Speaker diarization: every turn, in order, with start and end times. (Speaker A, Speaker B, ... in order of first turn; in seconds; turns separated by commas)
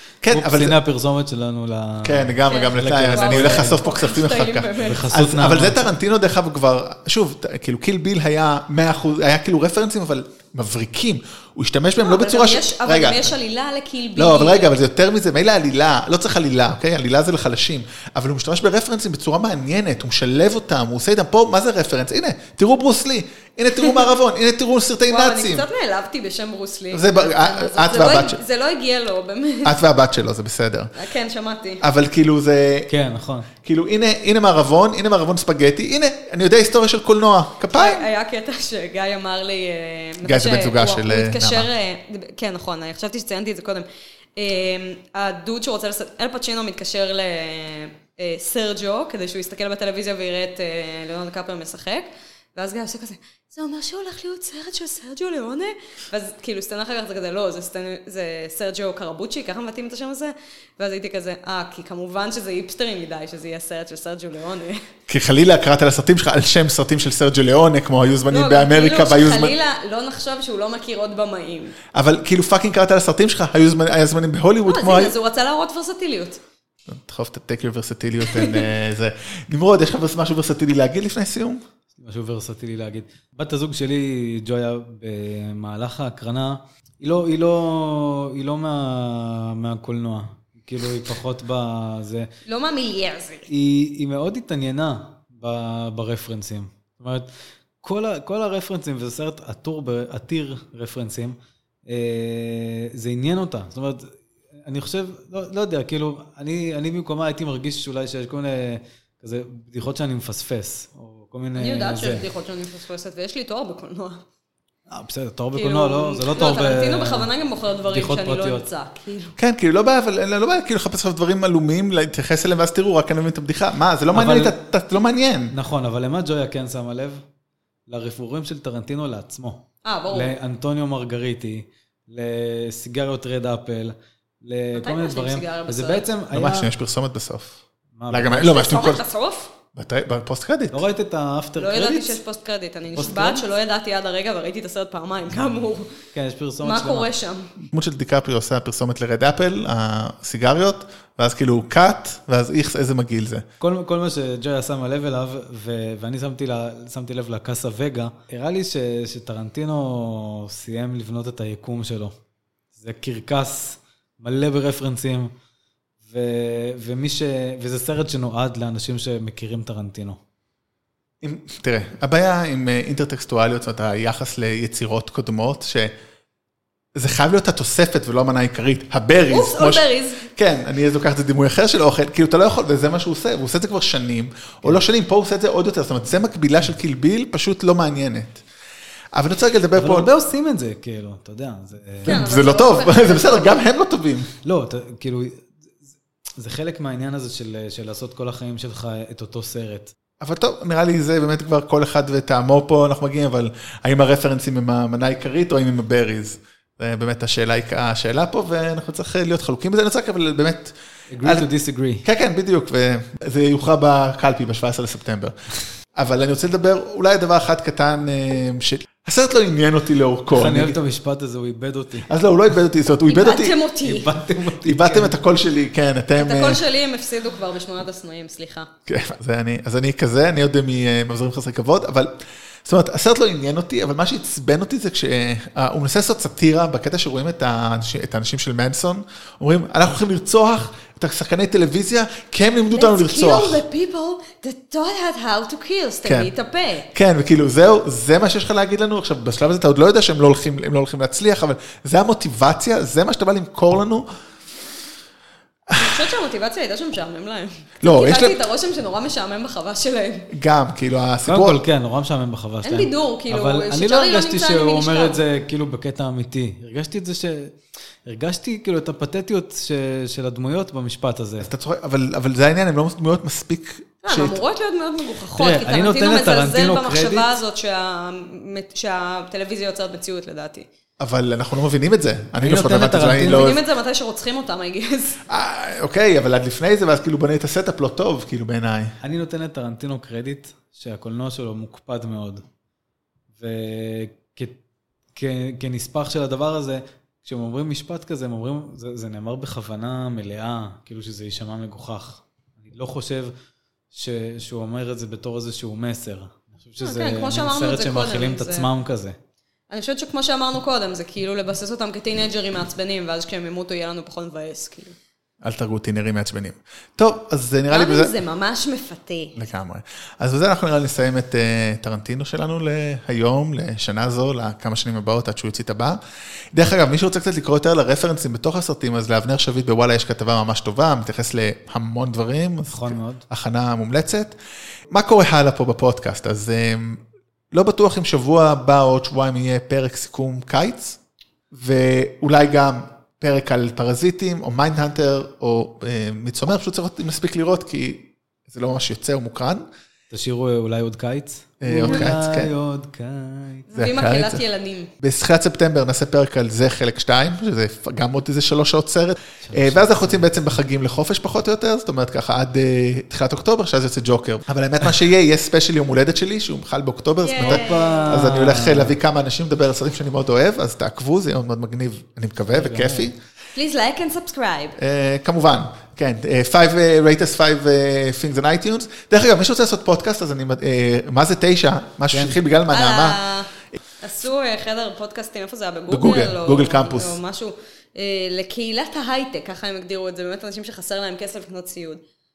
Speaker A: 0.2-0.8, Speaker B: 0.3-3.8, Speaker A: 2.0-13.3, Speaker C: 2.5-5.1, Speaker B: 4.8-5.9, Speaker C: 12.0-14.7, Speaker A: 14.2-25.6, Speaker C: 25.1-29.8, Speaker A: 26.9-28.4, Speaker A: 29.6-30.9, Speaker C: 30.9-31.8, Speaker A: 31.8-32.9, Speaker B: 32.9-33.5, Speaker A: 33.6-38.1, Speaker C: 37.7-64.8, Speaker A: 40.2-41.7, Speaker A: 65.1-69.5, Speaker C: 68.3-71.8, Speaker A: 71.9-75.1, Speaker C: 74.7-76.4, Speaker A: 76.9-81.6, Speaker C: 78.3-78.7, Speaker B: 82.0-92.3, Speaker C: 92.4-93.5, Speaker B: 93.5-97.3, Speaker B: 97.8-112.2, Speaker C: 111.5-114.2, Speaker B: 114.9-117.3, Speaker C: 115.5-119.3, Speaker B: 117.9-118.7, Speaker A: 119.4-125.5, Speaker B: 124.1-124.5, Speaker B: 125.5-127.2, Speaker B: 127.9-136.7, Speaker C: 129.8-130.3, Speaker C: 134.7-136.1, Speaker A: 136.3-139.0, Speaker B: 137.9-138.5, Speaker C: 138.3-139.5, Speaker A: 139.7-140.8, Speaker B: 140.7-142.2, Speaker C: 141.6-145.9, Speaker B: 142.9-143.4, Speaker B: 146.1-147.1, Speaker C: 146.6-147.5, Speaker A: 147.6-153.4, Speaker B: 153.6-162.2, Speaker B: 162.7-165.3, Speaker B: 166.1-170.2, Speaker A: 171.2-175.9, Speaker A: 176.9-188.4, Speaker C: 179.3-180.2, Speaker A: 189.1-190.1, Speaker B: 189.7-192.2, Speaker C: 192.0-193.6, Speaker A: 192.1-194.3, Speaker B: 194.4-199.9, Speaker A: 200.2-211.5, Speaker B: 211.1-212.1, Speaker A: 212.0-215.3, Speaker A: 215.9-220.8, Speaker B: 220.3-222.1, Speaker A: 222.1-223.6, Speaker C: 223.1-224.1, Speaker B: 223.8-225.2, Speaker A: 224.6-226.6, Speaker C: 226.2-228.7, Speaker A: 228.8-243.6, Speaker C: 242.7-246.9, Speaker A: 246.0-246.3, Speaker A: 246.9-254.1, Speaker A: 255.7-256.1, Speaker C: 255.7-260.3, Speaker A: 257.8-258.4, Speaker A: 260.3-261.6, Speaker B: 261.2-271.5, Speaker C: 262.6-265.2, Speaker A: 271.4-274.4, Speaker C: 274.0-280.7, Speaker B: 275.3-277.3, Speaker A: 281.0-283.6, Speaker B: 282.4-283.5, Speaker C: 283.2-285.2, Speaker A: 285.3-288.9, Speaker B: 289.0-292.4, Speaker B: 293.4-294.6, Speaker B: 295.1-303.4, Speaker B: 303.9-309.2, Speaker C: 306.8-308.7, Speaker C: 309.7-314.9, Speaker A: 315.4-318.1, Speaker C: 317.7-319.3, Speaker A: 319.4-326.0, Speaker A: 326.5-334.4, Speaker B: 332.7-333.2, Speaker A: 334.9-341.0, Speaker A: 341.5-349.6, Speaker B: 350.1-353.7, Speaker A: 351.6-352.5, Speaker C: 351.8-352.1, Speaker C: 353.7-354.9, Speaker A: 353.7-354.4, Speaker A: 355.0-373.2, Speaker B: 359.4-360.6, Speaker C: 367.2-368.2, Speaker B: 367.4-368.9, Speaker B: 372.5-373.1, Speaker C: 373.5-374.8, Speaker A: 374.8-383.2, Speaker B: 382.1-382.4, Speaker C: 382.7-383.5, Speaker C: 384.0-392.0, Speaker A: 385.9-387.2